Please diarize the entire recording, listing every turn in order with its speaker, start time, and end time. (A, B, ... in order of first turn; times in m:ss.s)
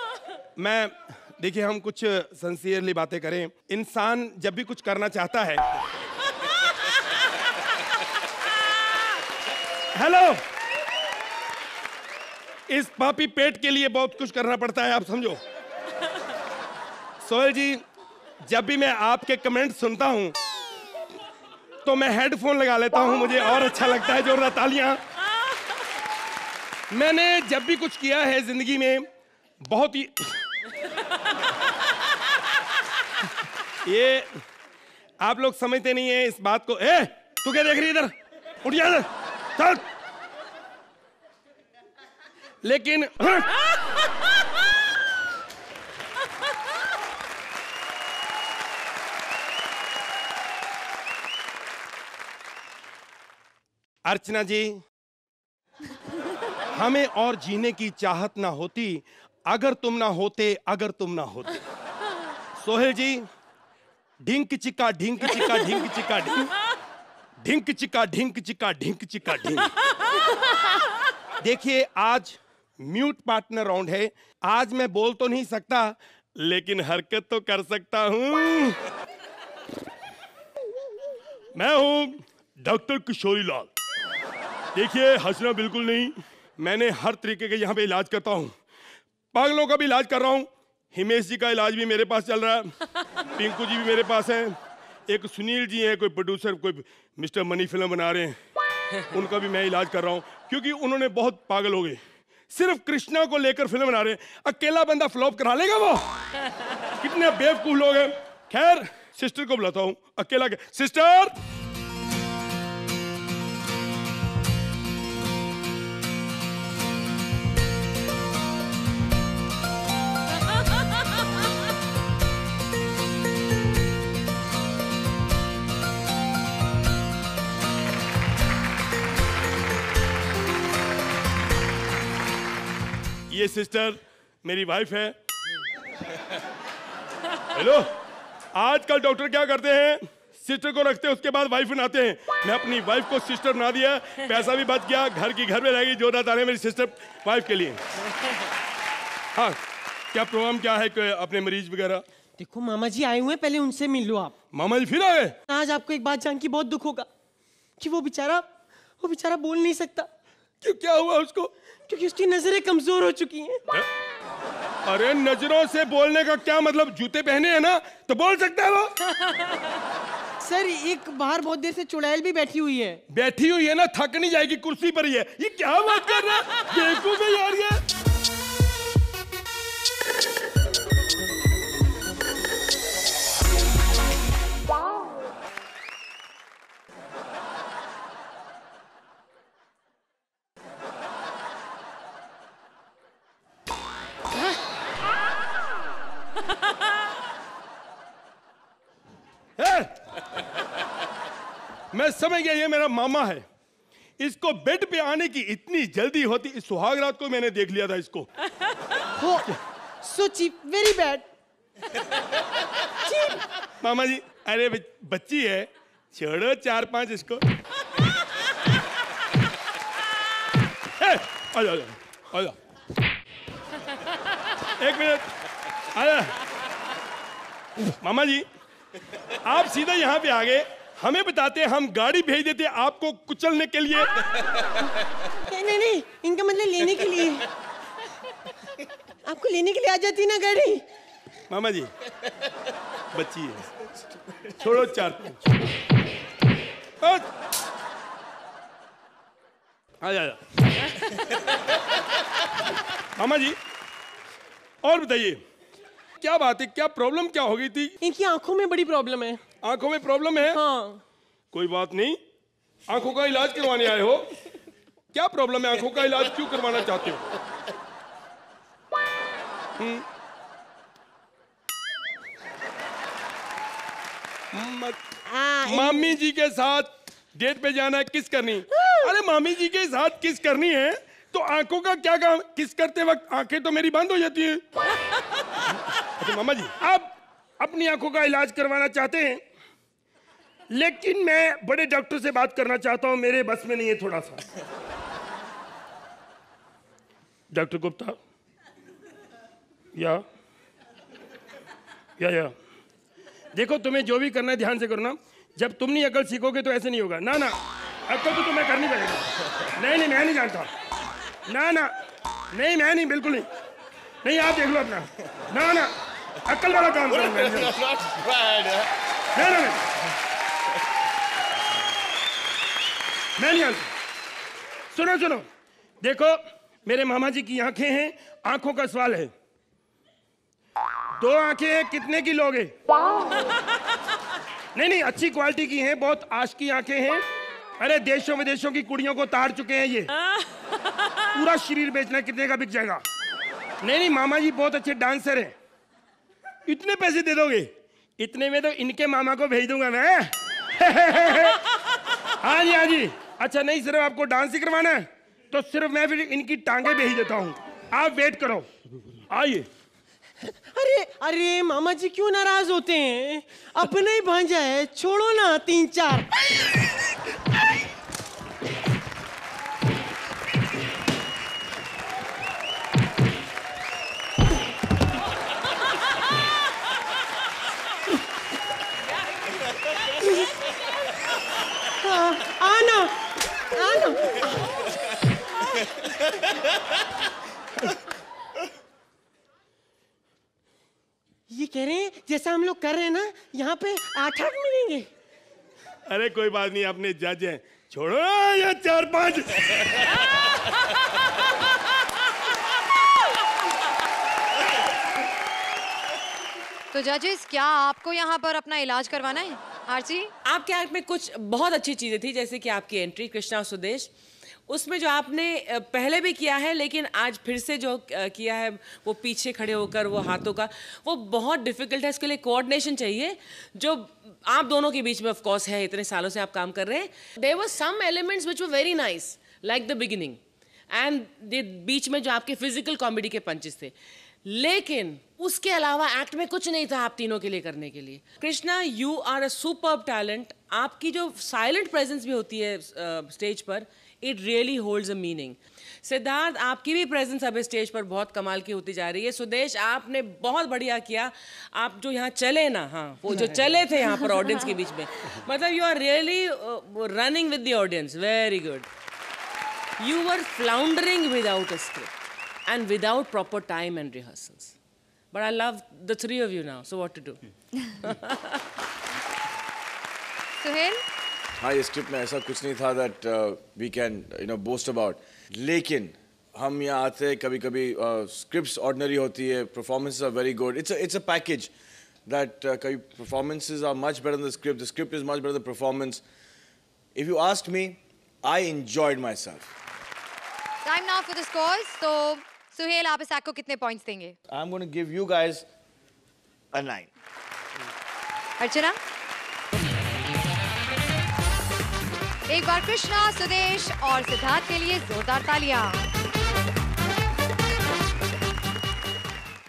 0:00.6-0:05.7 A
0:09.9-0:10.4 A
0:12.7-0:15.4 A
0:17.2-0:17.8 A
0:18.4-0:20.4 A
0:21.8-0:25.0 A
0:26.9-0:29.0 A
0:29.6-0:30.4 A
0:33.8-0:34.4 A
0:35.2-0:39.8 A
0:42.6-0:43.6 A
0:54.0-0:54.8 A
0:56.7-1:01.6 A
1:02.6-1:03.3 A
1:04.2-1:06.5 A
1:07.4-1:09.7 A
1:11.4-1:18.8 A
1:21.5-1:23.7 A
1:24.7-1:28.5 A
1:29.3-1:32.8 A
1:33.3-1:34.6 A
1:35.1-1:38.4 A
1:39.1-1:46.1 A
1:47.0-1:51.3 A
2:13.3-2:15.2 A
2:17.5-2:18.0 A
2:18.5-2:27.8 A
2:29.3-2:29.6 A
2:30.1-2:32.0 A
2:32.4-2:34.3 B
2:34.5-2:35.4 A
2:35.5-2:37.1 B
2:37.8-2:38.5 B
2:39.0-2:40.1 B
2:40.6-2:41.5 A
2:41.9-2:43.6 B
2:44.8-2:48.9 A
2:50.4-2:53.0 B
2:53.1-2:57.8 A
3:19.6-3:19.9 A
3:21.9-3:23.4 A
3:24.2-3:28.3 A
3:29.2-3:31.2 B
3:33.0-3:33.4 B
3:33.8-3:37.4 A
3:41.0-3:42.6 A
3:44.7-3:45.3 A
3:45.9-3:46.4 A
3:48.0-3:48.5 A
3:49.4-3:54.1 A
3:55.4-3:57.5 B
3:59.2-4:00.8 B
4:01.5-4:01.9 A
4:03.1-4:03.7 A
4:04.5-4:05.4 A
4:07.0-4:07.2 A
4:10.0-4:10.4 A
4:13.2-4:13.6 A
4:14.8-4:15.4 A
4:16.2-4:17.9 A
4:18.0-4:19.4 B
4:19.6-4:20.6 A
4:20.4-4:21.0 B
4:21.5-4:22.2 A
4:22.9-4:24.4 A
4:25.1-4:27.3 A
4:29.8-4:30.0 A
4:34.5-4:35.0 A
4:35.3-4:36.2 B
4:35.7-4:44.6 A
4:38.7-4:39.1 B
4:46.0-4:49.4 A
4:50.7-4:54.4 A
4:57.5-4:58.2 A
4:59.9-5:00.2 A
5:02.2-5:02.5 A
5:03.5-5:10.7 A
5:11.4-5:11.9 A
5:12.5-5:13.5 A
5:14.2-5:17.8 A
5:18.0-5:18.8 C
5:19.3-5:19.9 A
5:23.4-5:23.9 A
5:24.9-5:25.4 A
5:26.0-5:29.3 A
5:31.1-5:32.8 A
5:34.7-5:37.2 A
5:37.8-5:40.2 A
5:41.3-5:43.0 A
5:43.8-5:45.6 A
5:46.6-5:51.7 A
5:52.3-5:59.7 A
6:00.4-6:06.3 B
6:20.2-6:20.5 B
6:22.0-6:23.2 B
6:23.7-6:24.6 B
6:31.5-6:35.1 B
6:36.0-6:40.2 A
6:46.9-6:50.3 D
6:50.4-6:54.1 E
6:54.7-7:10.4 E
7:10.9-7:13.9 E
7:14.4-7:38.9 E
7:40.0-7:42.1 E
7:42.7-7:44.7 E
7:45.3-7:48.4 E
7:50.6-7:51.0 D
7:51.6-8:01.7 C
8:02.2-8:06.2 C
8:07.1-8:09.7 C
8:10.8-8:14.4 D
8:14.5-8:15.6 C
8:16.7-8:17.1 C
8:18.6-8:19.0 D
8:22.5-8:26.0 D